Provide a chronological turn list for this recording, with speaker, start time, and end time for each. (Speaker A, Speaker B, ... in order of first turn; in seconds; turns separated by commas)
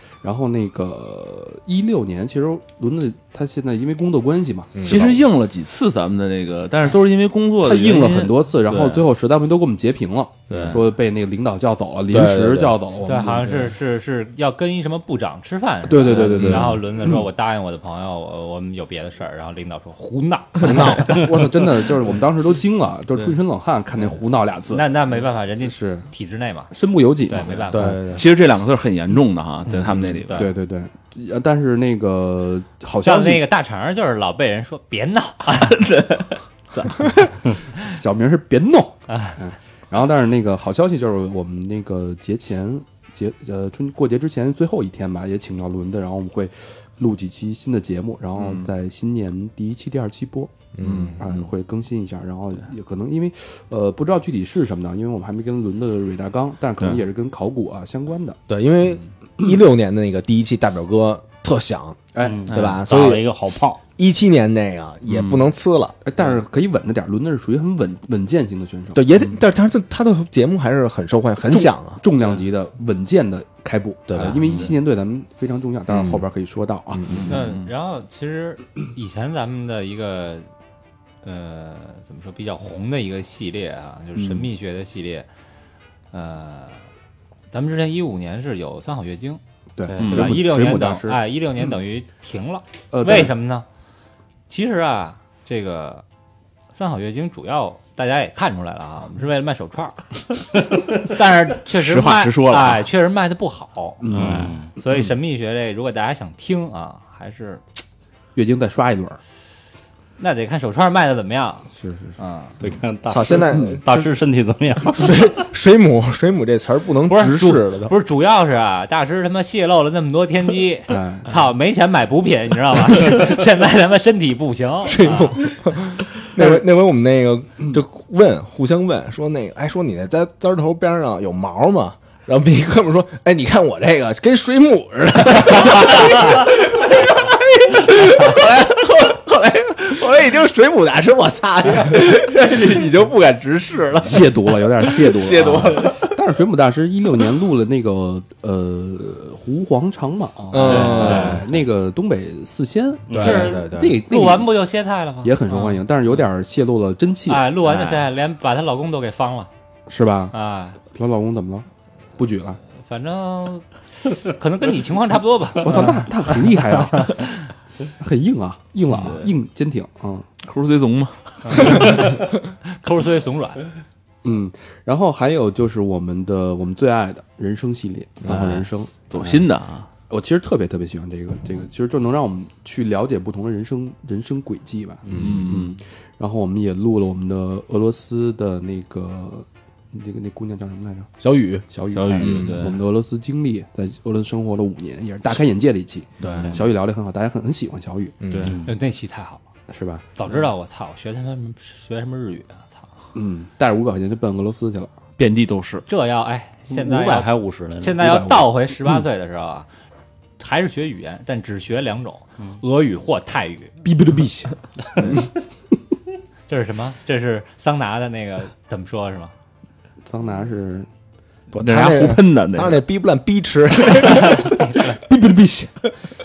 Speaker A: 0.2-5.2, Speaker B: 4.8-5.1, Speaker C: 4.9-9.1, Speaker A: 7.6-13.7, Speaker C: 10.5-10.8, Speaker B: 12.1-12.8, Speaker D: 13.0-21.2, Speaker A: 15.9-17.2, Speaker B: 16.2-16.8, Speaker B: 20.6-21.5, Speaker A: 20.6-24.9, Speaker D: 24.7-26.7, Speaker A: 25.6-26.1, Speaker A: 26.7-28.0, Speaker D: 27.3-28.0, Speaker B: 27.7-28.3, Speaker C: 28.1-30.5, Speaker A: 29.9-33.5, Speaker D: 30.1-30.5, Speaker D: 33.0-35.8, Speaker C: 35.5-37.0, Speaker A: 37.8-58.4, Speaker D: 39.1-39.4, Speaker C: 48.4-48.7, Speaker B: 50.8-51.3, Speaker C: 50.8-51.4, Speaker B: 58.5-63.3, Speaker A: 62.1-62.5, Speaker E: 62.2-63.8, Speaker B: 64.0-66.0, Speaker C: 65.1-65.5, Speaker A: 66.0-69.3, Speaker B: 68.9-72.0, Speaker A: 71.5-77.3, Speaker B: 74.1-74.7, Speaker B: 75.9-76.3, Speaker B: 76.9-77.3, Speaker C: 77.1-77.7, Speaker D: 77.3-80.5, Speaker D: 81.2-85.3, Speaker A: 84.2-84.5, Speaker D: 86.1-86.8, Speaker D: 87.5-89.4, Speaker A: 89.8-91.2, Speaker E: 89.9-90.3, Speaker C: 90.0-90.4, Speaker D: 90.0-93.7, Speaker A: 92.9-93.3, Speaker D: 94.5-96.0, Speaker D: 96.7-100.1, Speaker D: 100.8-104.1, Speaker C: 101.7-102.9, Speaker A: 104.0-104.5, Speaker C: 104.1-104.5, Speaker E: 104.1-104.7, Speaker D: 104.7-107.6, Speaker A: 108.3-109.2, Speaker D: 110.2-112.5, Speaker A: 111.8-112.2, Speaker E: 112.6-115.3, Speaker B: 113.1-114.1, Speaker B: 114.9-118.0, Speaker D: 117.1-125.4, Speaker A: 120.9-121.3, Speaker B: 124.8-146.1, Speaker A: 144.1-154.6, Speaker B: 150.5-151.4, Speaker E: 150.7-151.4, Speaker C: 151.0-151.3, Speaker E: 153.1-153.6, Speaker B: 153.1-154.0, Speaker D: 153.2-155.4, Speaker A: 155.2-157.5, Speaker D: 157.3-159.5, Speaker A: 159.9-160.3, Speaker D: 160.3-160.8, Speaker A: 160.9-162.6, Speaker D: 162.8-167.4, Speaker A: 165.6-167.2, Speaker A: 168.0-170.3, Speaker C: 168.9-169.3, Speaker C: 170.4-172.1, Speaker D: 171.4-173.7, Speaker A: 174.2-179.5, Speaker C: 178.2-179.9, Speaker A: 180.1-191.1, Speaker B: 185.1-185.5, Speaker C: 185.1-185.8, Speaker B: 191.2-192.7, Speaker A: 191.7-198.2, Speaker C: 191.9-192.8, Speaker B: 196.2-196.6, Speaker B: 198.2-198.6, Speaker C: 198.3-198.6, Speaker E: 198.4-198.8, Speaker D: 198.7-199.4, Speaker A: 199.7-200.1, Speaker D: 200.2-202.8, Speaker A: 203.2-204.9, Speaker C: 205.2-205.8, Speaker D: 205.9-209.7, Speaker E: 206.7-208.3, Speaker A: 208.0-209.0, Speaker D: 210.4-213.7, Speaker A: 213.8-215.3, Speaker C: 215.0-215.2, Speaker D: 216.5-219.3, Speaker A: 220.1-220.9, Speaker B: 221.5-224.8, Speaker C: 221.6-222.8, Speaker A: 224.8-225.9